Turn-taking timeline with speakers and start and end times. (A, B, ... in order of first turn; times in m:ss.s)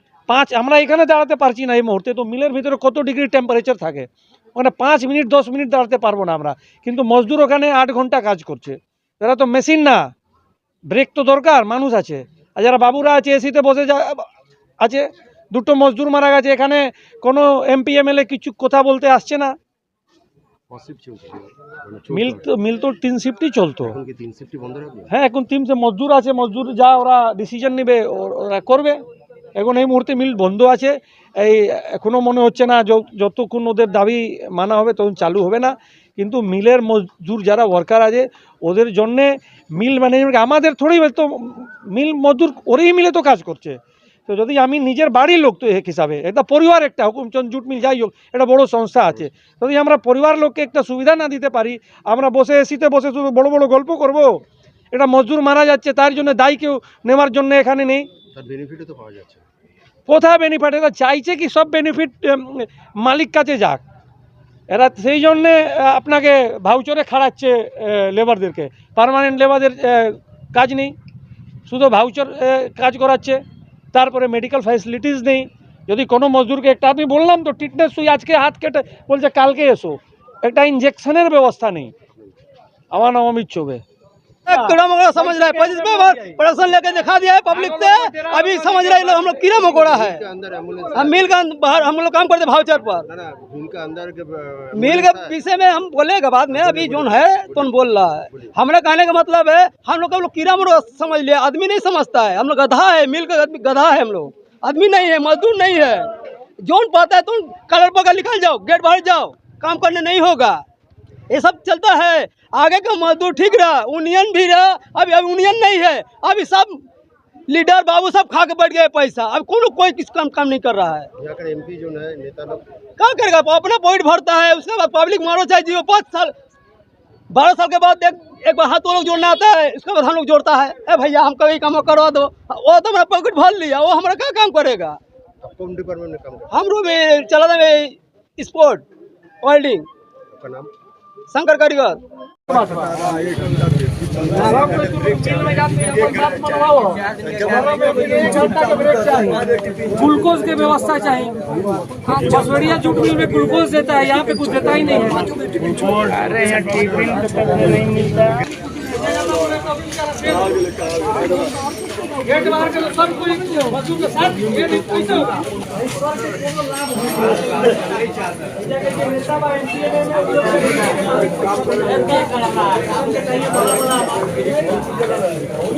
0:00.3-0:10.1 A
0:10.9-0:14.2 A
0:14.8-0:19.5 A
0:20.7-0:22.5 B
0:22.1-0:23.9 A
0:23.8-0:25.1 B
0:25.1-0:29.0 A
0:29.6-0:54.4 A
0:54.9-0:58.1 A
0:58.3-0:59.4 B
1:00.1-1:03.8 A
1:04.7-1:11.0 A
1:11.7-1:13.4 A
1:13.9-1:21.9 A
1:22.9-1:23.8 A
1:24.5-1:30.2 C
1:28.2-1:29.0 D
1:28.5-1:29.2 A
1:29.6-1:31.2 B
1:30.9-1:33.1 C
1:33.0-1:35.4 B
1:34.7-1:46.1 C
1:36.5-1:38.6 B
1:46.6-1:50.6 C
1:51.3-1:56.8 C
1:57.5-2:01.1 C
2:01.2-2:02.6 B
2:03.0-2:06.3 C
2:07.3-2:15.0 C
2:15.4-2:16.5 B
2:16.5-2:18.9 C
2:19.4-2:19.9 C
2:20.3-2:20.7 B
2:21.3-2:22.0 C
2:24.4-2:29.4 A
2:26.0-2:26.6 D
2:27.8-2:29.4 D
2:29.9-2:31.3 A
2:30.0-2:31.0 D
2:32.1-2:33.0 D
2:32.2-2:36.0 A
2:34.0-2:34.3 D
2:35.0-2:38.3 D
2:38.9-2:40.4 A
2:39.0-2:40.5 D
2:42.2-2:45.4 A
2:42.3-2:45.4 D
2:48.7-2:52.6 D
2:53.4-2:53.8 D